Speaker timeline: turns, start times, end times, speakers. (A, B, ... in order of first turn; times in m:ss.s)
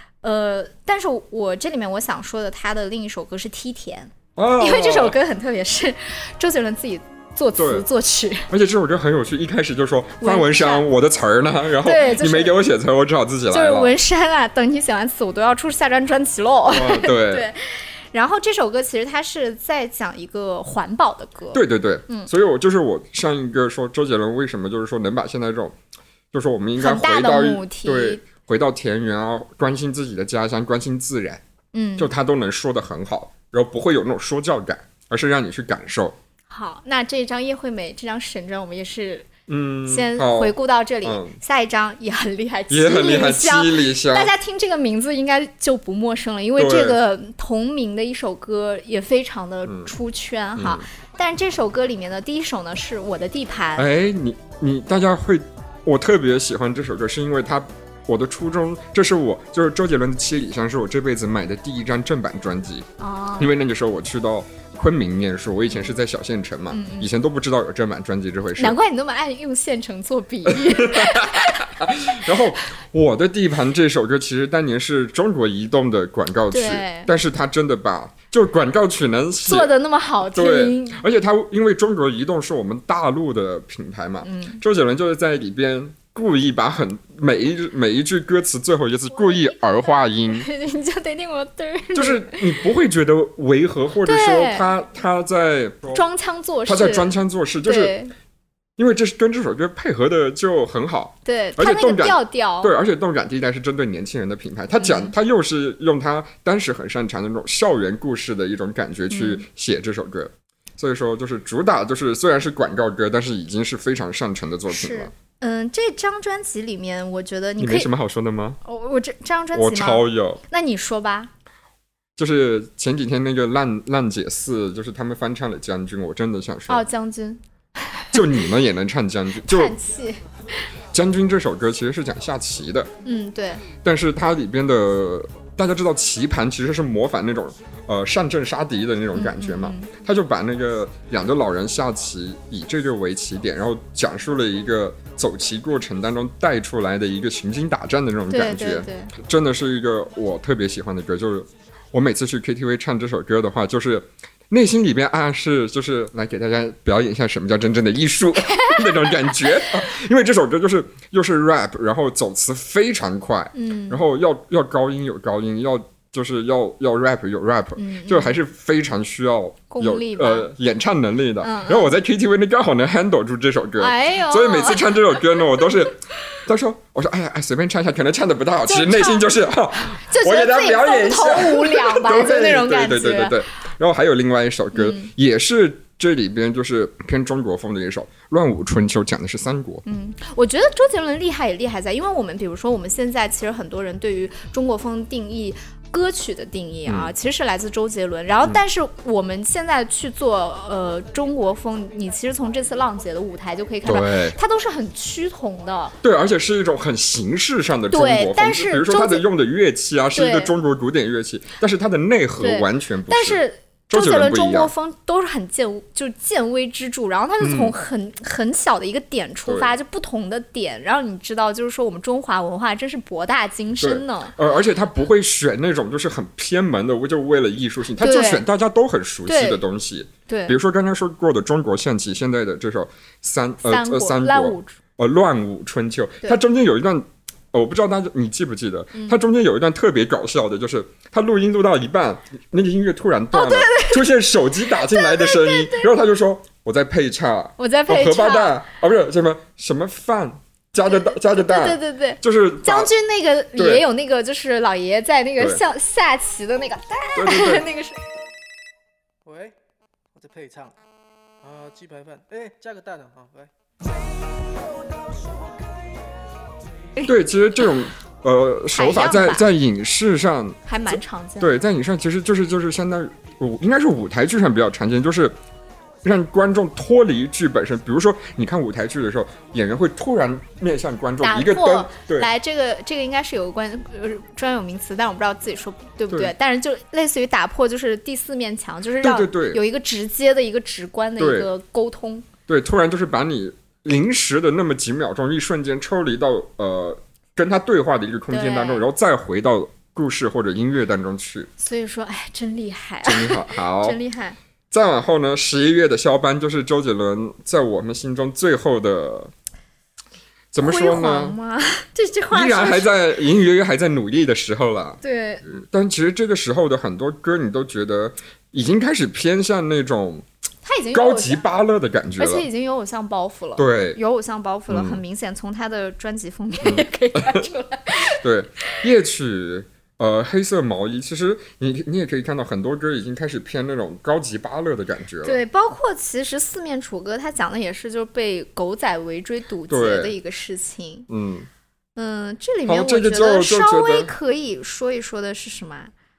0:00.2-0:08.5 A
0:04.4-0:05.2 B
0:07.6-0:07.8 B
0:08.5-0:14.0 B
0:10.2-0:10.9 A
0:11.8-0:12.6 A
0:13.5-0:22.3 A
0:16.7-0:17.5 B
0:21.5-0:25.8 B
0:26.3-0:31.4 B
0:26.8-0:28.2 A
0:31.7-0:32.1 A
0:32.0-0:36.2 B
0:36.5-0:39.3 A
0:39.5-0:41.4 B
0:39.9-0:53.9 A
0:42.7-0:44.3 B
0:46.6-0:47.0 B
0:49.7-0:49.9 B
0:50.6-0:50.8 B
0:53.8-1:02.9 B
1:03.0-1:03.5 A
1:03.4-1:08.8 B
1:06.7-1:07.1 A
1:08.6-1:12.4 A
1:10.5-1:19.7 B
1:16.5-1:17.1 A
1:19.4-1:21.0 A
1:20.3-1:30.5 B
1:24.2-1:24.6 A
1:30.3-1:32.6 A
1:32.0-1:36.0 B
1:34.0-1:34.7 A
1:35.9-1:37.1 A
1:36.7-1:37.9 B
1:37.6-1:38.1 A
1:38.8-1:55.1 B
1:41.2-1:42.7 A
1:44.8-1:45.1 A
1:49.1-1:49.4 A
1:54.7-1:57.9 A
1:57.6-1:58.6 B
1:58.6-2:01.3 A
1:59.5-2:00.4 B
2:02.2-2:06.9 B
2:06.7-2:08.2 A
2:08.1-2:09.8 B
2:09.4-2:10.2 A
2:10.9-2:12.9 B
2:13.0-2:13.7 A
2:13.8-3:09.8 B
2:19.1-2:19.9 A
2:28.3-2:29.2 A
2:38.5-2:39.4 A
2:43.5-2:44.0 A
2:47.8-2:48.4 A
2:49.7-2:50.5 A
2:51.4-2:52.0 A
2:53.8-2:55.2 A
2:58.7-2:59.3 A
2:59.9-3:03.4 A
3:04.7-3:05.1 A
3:09.8-3:26.0 A
3:16.9-3:17.1 B
3:23.8-3:24.4 B
3:26.0-3:34.7 B
3:27.9-3:29.3 A
3:30.1-3:30.5 A
3:32.4-3:44.4 A
3:37.4-3:37.8 B
3:39.5-3:39.8 B
3:43.8-4:12.9 B
3:48.0-3:48.4 A
3:49.3-3:49.6 A
3:50.3-3:50.6 A
3:53.6-3:54.8 A
4:03.3-4:04.1 A
4:04.7-4:05.9 A
4:07.6-4:08.6 A
4:11.3-4:18.0 A
4:13.6-4:13.9 B
4:17.2-4:17.6 B
4:19.2-4:19.6 C
4:20.2-4:20.8 C
4:21.4-4:23.5 C
4:27.0-4:35.4 B
4:28.7-4:29.4 A
4:30.7-4:31.6 A
4:36.0-4:42.3 B
4:41.2-4:52.2 A
4:49.0-4:49.6 B
4:51.2-4:51.5 B
4:52.5-5:01.5 B
4:58.3-4:58.9 A
5:01.6-5:04.4 A
5:03.0-5:04.0 B
5:04.7-5:09.3 B
5:10.5-5:11.4 B
5:10.6-5:12.9 A
5:12.3-5:20.3 B
5:15.0-5:15.6 A
5:20.6-5:21.5 A
5:20.9-5:22.5 B
5:22.2-5:28.2 A
5:23.6-5:24.0 B
5:24.7-5:25.0 B
5:26.6-5:27.4 B
5:28.1-5:35.4 B
5:35.2-5:41.1 A
5:39.7-5:40.2 B
5:41.1-5:41.5 B
5:42.0-5:45.9 A
5:42.7-5:44.1 B